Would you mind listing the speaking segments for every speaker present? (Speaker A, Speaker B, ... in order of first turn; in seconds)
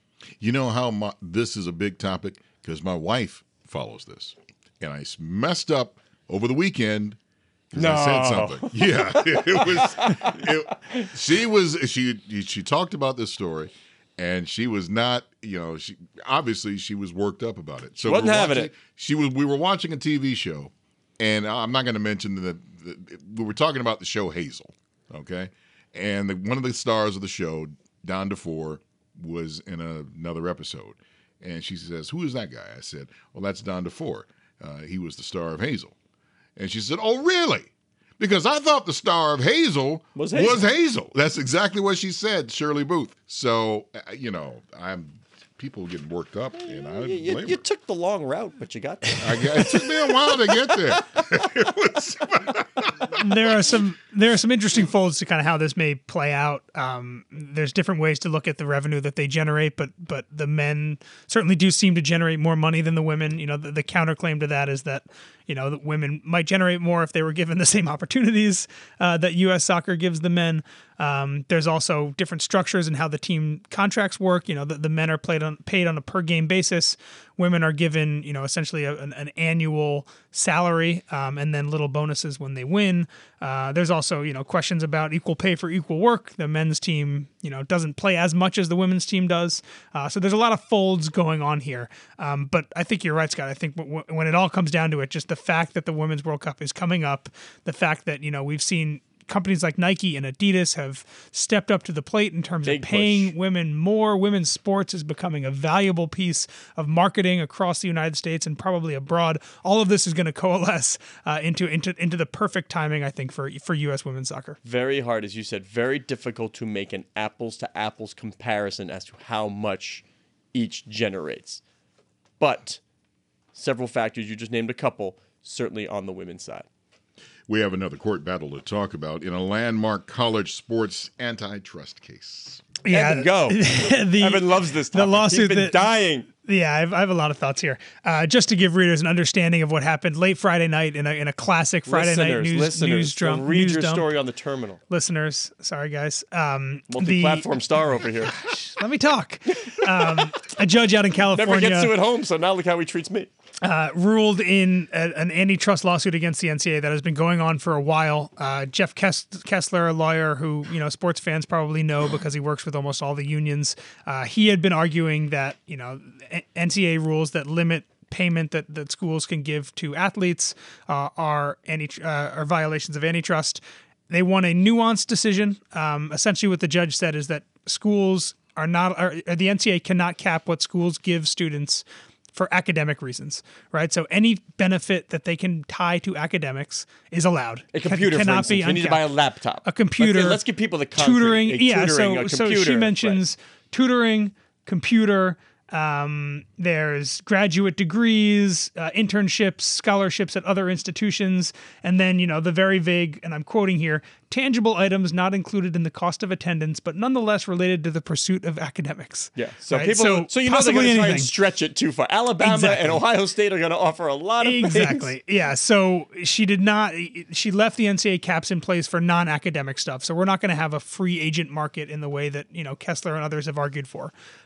Speaker A: 0.4-7.2, 7.7-35.9, 36.6-47.6, 49.2-53.2, 127.5-132.6
Speaker B: 7.8-11.1, 18.0-18.7, 40.1-40.6, 46.5-50.8, 102.6-103.3, 114.6-121.6, 122.4-122.8, 123.5-126.7, 132.9-136.3, 141.8-144.8, 146.9-148.3, 151.3-153.3, 187.7-193.2, 209.3-215.1
Speaker C: 53.1-114.6, 132.8-144.1, 144.9-151.9, 153.6-189.1, 189.6-190.4, 190.9-211.3, 212.4-213.0, 214.4-224.1